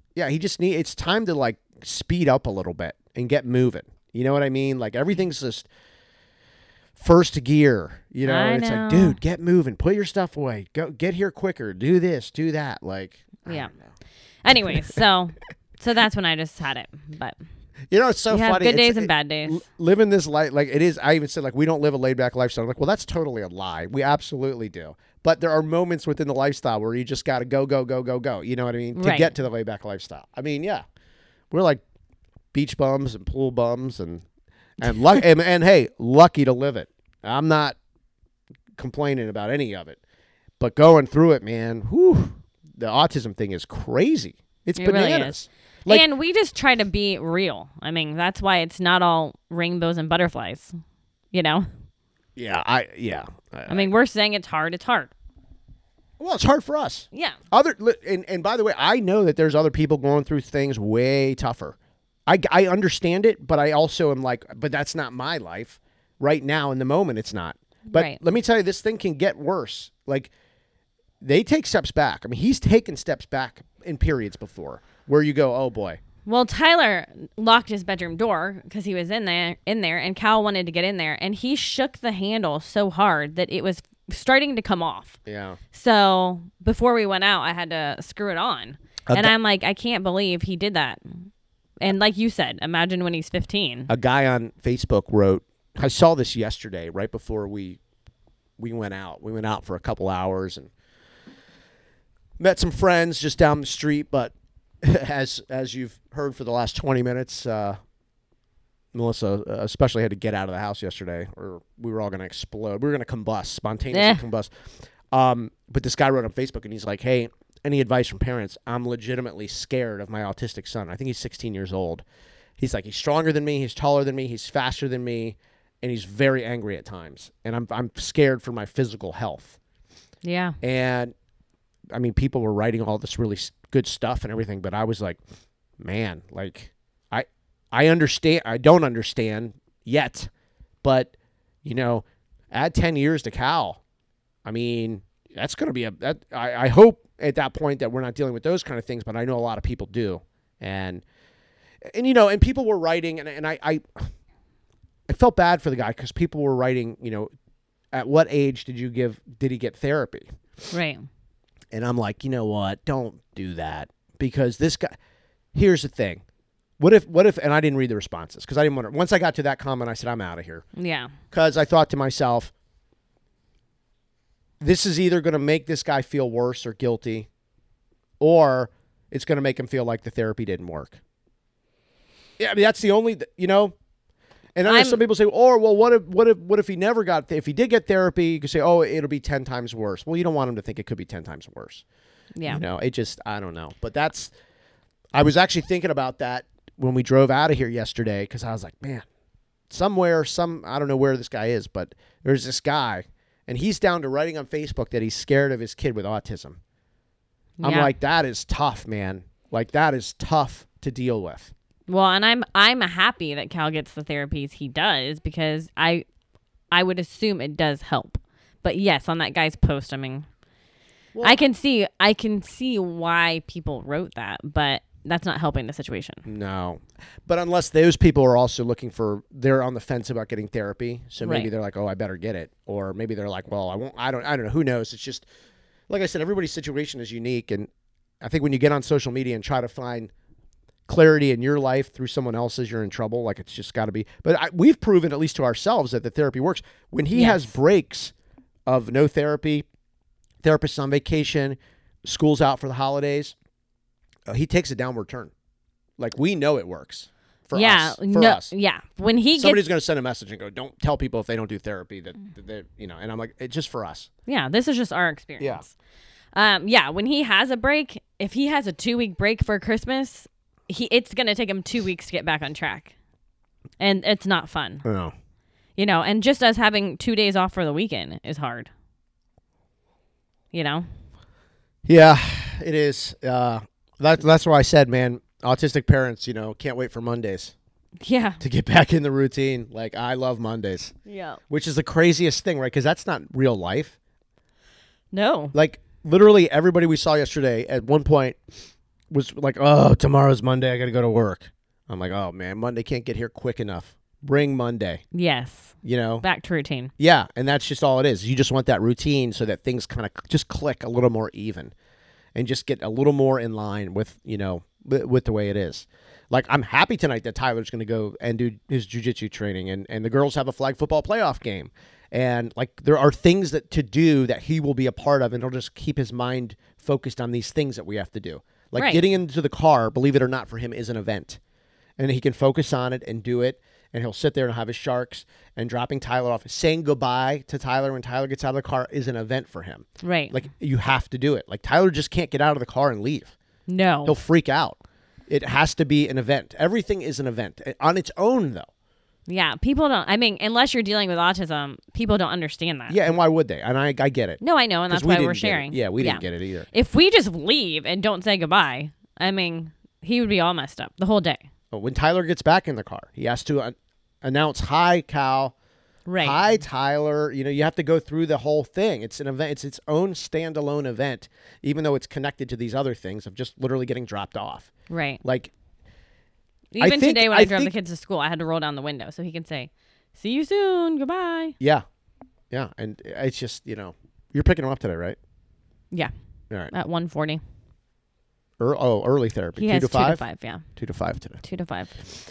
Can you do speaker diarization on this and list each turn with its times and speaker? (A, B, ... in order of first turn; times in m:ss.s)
0:00.1-0:05.7 A
0:07.0-0:13.9 A
0:08.2-0:09.2 B
0:13.4-0:13.7 B
0:14.4-0:17.4 B
0:14.5-0:15.0 A
0:17.9-0:30.8 A
0:18.3-0:19.6 B
0:28.9-0:29.3 B
0:31.5-0:31.8 A
0:32.5-0:34.2 A
0:34.8-0:37.8 A
0:34.9-0:35.2 B
0:38.8-0:40.0 A
0:40.6-0:46.0 A
0:44.8-0:50.7 B
0:51.3-0:51.7 B
0:52.4-0:53.9 A
0:53.7-0:55.1 B
0:56.2-1:01.8 A
0:57.1-0:57.4 B
1:02.3-1:10.3 A
1:07.9-1:08.2 B
1:11.2-1:16.0 A
1:16.2-1:25.2 B
1:25.2-1:25.6 A
1:25.7-1:31.3 B
1:29.1-1:29.3 A
1:31.8-1:33.9 B
1:33.9-1:37.8 A
1:38.6-1:40.7 A
1:42.4-1:47.8 A
1:48.9-1:54.5 A
1:53.9-1:54.2 B
1:55.1-2:02.0 A
2:02.6-2:09.6 A
2:10.2-2:10.6 B
2:10.6-2:11.1 A
2:11.9-2:15.2 A
2:15.8-2:20.3 A
2:20.8-2:21.1 A
2:21.6-2:23.8 A
2:24.4-2:31.0 A
2:31.9-2:34.1 A
2:35.1-2:37.3 A
2:37.9-2:40.7 A
2:40.7-2:41.0 B
2:41.7-2:44.9 A
2:45.5-2:46.2 A
2:46.8-2:50.6 A
2:50.7-2:51.1 B
2:51.3-2:52.5 A
2:54.6-2:57.3 A
2:58.2-3:01.0 A
3:02.4-3:03.7 A
3:04.5-3:11.8 A
3:04.6-3:05.0 B
3:12.3-3:12.6 B
3:12.4-3:14.3 A
3:15.1-3:19.0 A
3:19.7-3:26.6 A
3:27.6-3:27.9 B
3:27.6-3:31.5 A
3:31.9-3:36.0 B
3:36.7-3:40.2 B
3:41.1-3:41.4 A
3:41.2-3:46.2 B
3:46.2-3:55.2 A
3:51.2-3:51.5 B
3:55.9-3:57.7 A
3:58.2-4:00.1 A
4:00.9-4:08.1 A
4:07.1-4:07.5 B
4:08.7-4:09.6 A
4:10.4-4:13.3 A
4:14.3-4:15.3 A
4:16.0-4:18.5 A
4:17.5-4:19.6 B
4:19.4-4:24.1 A
4:24.3-4:25.7 B
4:25.4-4:25.6 A
4:26.3-4:32.9 B
4:33.8-4:34.8 B
4:34.8-4:35.1 A
4:35.8-4:38.7 B
4:40.5-4:40.9 B
4:41.8-4:47.5 A
4:48.0-4:48.4 B
4:48.4-4:50.9 A
4:51.0-4:51.4 B
4:51.5-4:53.9 A
4:55.1-4:55.5 B
4:55.5-4:58.4 A
4:59.1-5:05.0 A
5:05.1-5:06.9 B
5:05.8-5:06.2 A
5:07.0-5:11.7 A
5:12.3-5:31.4 A
5:28.8-5:29.0 B
5:32.0-5:43.3 A
5:40.0-5:40.3 B
5:43.7-5:44.1 B
5:44.0-5:48.7 A
5:49.3-5:53.0 B
5:52.9-5:56.7 A
5:54.4-6:01.4 B
6:01.7-6:05.5 A
6:06.0-6:06.4 B
6:06.2-6:14.7 A
6:14.9-6:15.2 B
6:15.2-6:15.5 A
6:16.7-6:21.6 B
6:16.8-6:17.7 A
6:22.5-6:25.2 A
6:26.7-6:27.4 B
6:28.6-6:30.2 A
6:29.6-6:30.6 B
6:30.8-6:31.4 A
6:31.4-6:32.0 B